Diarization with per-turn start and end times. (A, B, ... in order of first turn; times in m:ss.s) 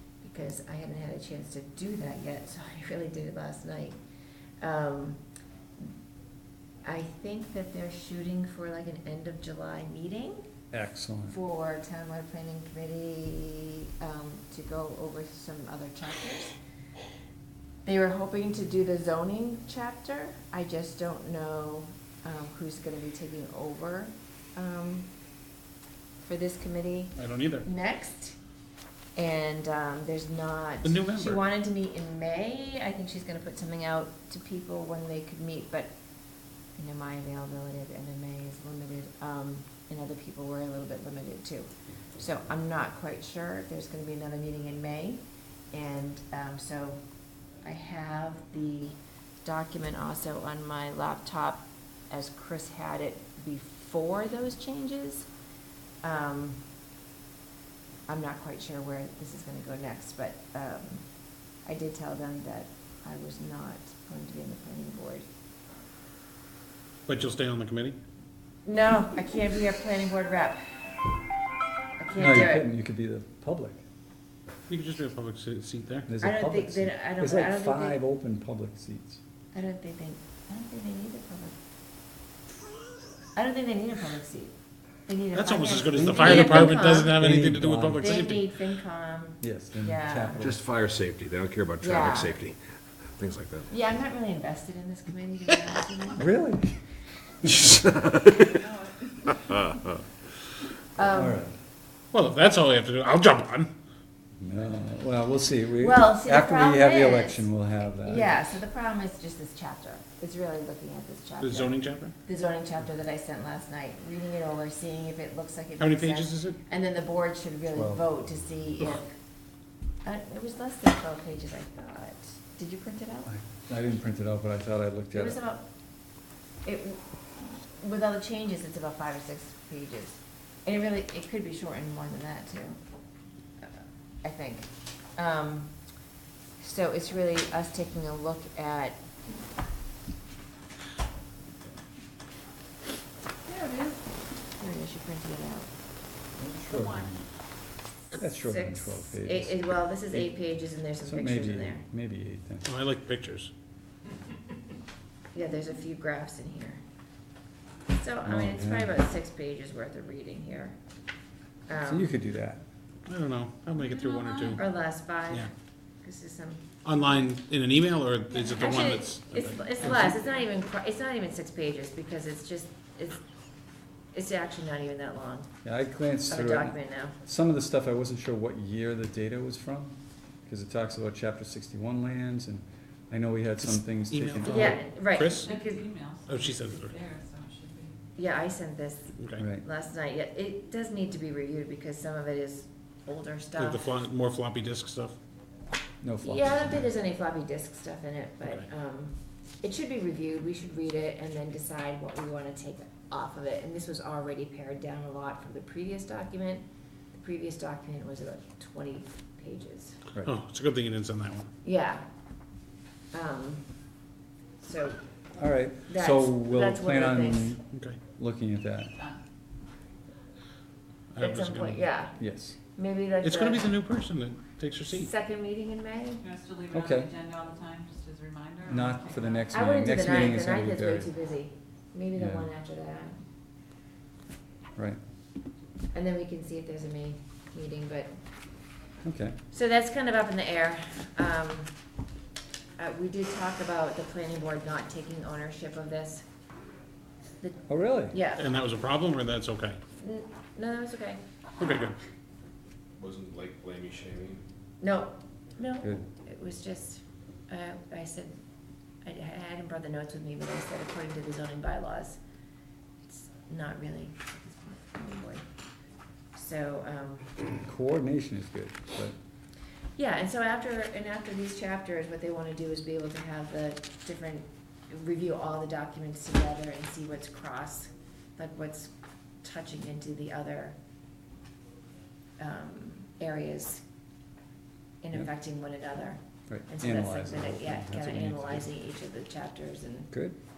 0:00.2-0:04.0 A
0:04.6-0:05.2 A
0:06.8-0:10.4 A
0:10.7-0:11.4 B
0:11.3-0:16.6 A
0:17.8-0:25.1 A
0:26.2-0:28.4 A
0:27.2-0:27.7 C
0:29.2-0:35.9 A
0:30.8-0:31.4 C
0:36.8-0:47.0 A
0:47.6-0:55.3 A
0:56.0-0:56.6 A
0:58.1-1:01.0 A
1:01.6-1:05.3 A
1:07.1-1:08.0 C
1:08.6-1:10.9 A
1:12.0-1:12.7 A
1:12.2-1:13.8 B
1:14.7-1:16.1 C
1:16.1-1:19.2 B
1:16.2-1:18.0 A
1:19.5-1:21.6 A
1:23.3-1:24.6 A
1:25.1-1:27.2 A
1:25.3-1:28.4 C
1:26.0-1:28.2 B
1:28.0-1:30.5 A
1:29.4-1:30.6 B
1:30.4-1:32.6 D
1:31.8-1:32.4 A
1:33.2-1:33.7 D
1:33.7-1:36.3 A
1:36.2-1:36.8 B
1:37.4-1:38.6 D
1:39.5-1:39.9 D
1:41.0-1:41.4 A
1:41.0-1:41.6 B
1:42.1-1:43.7 C
1:44.4-1:48.4 B
1:45.8-1:47.5 A
1:48.0-1:59.2 A
1:51.4-1:52.2 C
1:55.8-1:56.6 C
1:57.7-1:58.1 B
2:00.0-2:03.3 A
2:03.3-2:05.4 B
2:05.1-2:05.7 A
2:06.6-2:07.0 A
2:07.7-2:12.8 A
2:14.2-2:15.7 A
2:16.6-2:19.1 A
2:23.5-2:23.9 E
2:24.6-2:25.7 A
2:26.4-2:27.3 B
2:28.1-2:29.6 B
2:28.2-2:31.8 A
2:31.0-2:32.7 B
2:32.6-2:33.5 C
2:35.3-2:36.8 A
2:38.0-2:40.8 A
2:38.2-2:39.0 B
2:41.7-2:42.1 A
2:41.7-2:42.6 B
2:43.1-2:44.6 C
2:44.6-2:45.5 A
2:46.0-2:46.7 A
2:46.8-2:50.1 C
2:48.5-2:53.2 A
2:54.1-2:55.5 A
2:55.6-3:04.8 B
2:56.3-2:57.2 A
3:04.0-3:05.5 C
3:04.4-3:05.9 A
3:06.3-3:07.0 C
3:07.0-3:07.7 E
3:08.2-3:13.8 A
3:09.2-3:09.4 C
3:09.4-3:09.6 B
3:13.6-3:15.2 C
3:16.0-3:16.9 B
3:16.2-3:30.0 A
3:30.2-3:31.5 C
3:31.6-3:32.0 A
3:33.1-3:33.7 A
3:34.6-3:35.1 A
3:35.4-3:39.0 B
3:35.9-3:37.6 A
3:37.7-3:38.0 C
3:41.2-3:41.8 C
3:41.2-3:43.7 A
3:42.2-3:42.6 B
3:43.2-3:45.1 C
3:44.9-3:46.3 A
3:46.3-3:48.7 E
3:46.7-3:47.2 B
3:48.6-3:51.1 B
3:49.5-3:53.2 A
3:52.2-3:52.5 B
3:55.9-3:58.1 A
3:59.0-3:59.4 B
3:59.5-4:01.7 A
4:02.8-4:06.2 A
4:07.4-4:08.4 A
4:07.7-4:08.2 B
4:08.4-4:09.8 C
4:10.0-4:11.2 A
4:11.6-4:12.0 C
4:13.0-4:14.4 D
4:14.8-4:18.4 A
4:19.0-4:22.2 A
4:23.0-4:25.4 A
4:26.3-4:27.4 A
4:27.6-4:29.2 B
4:30.0-4:40.8 A
4:42.4-4:43.8 A
4:45.0-4:50.1 A
4:46.5-4:48.7 B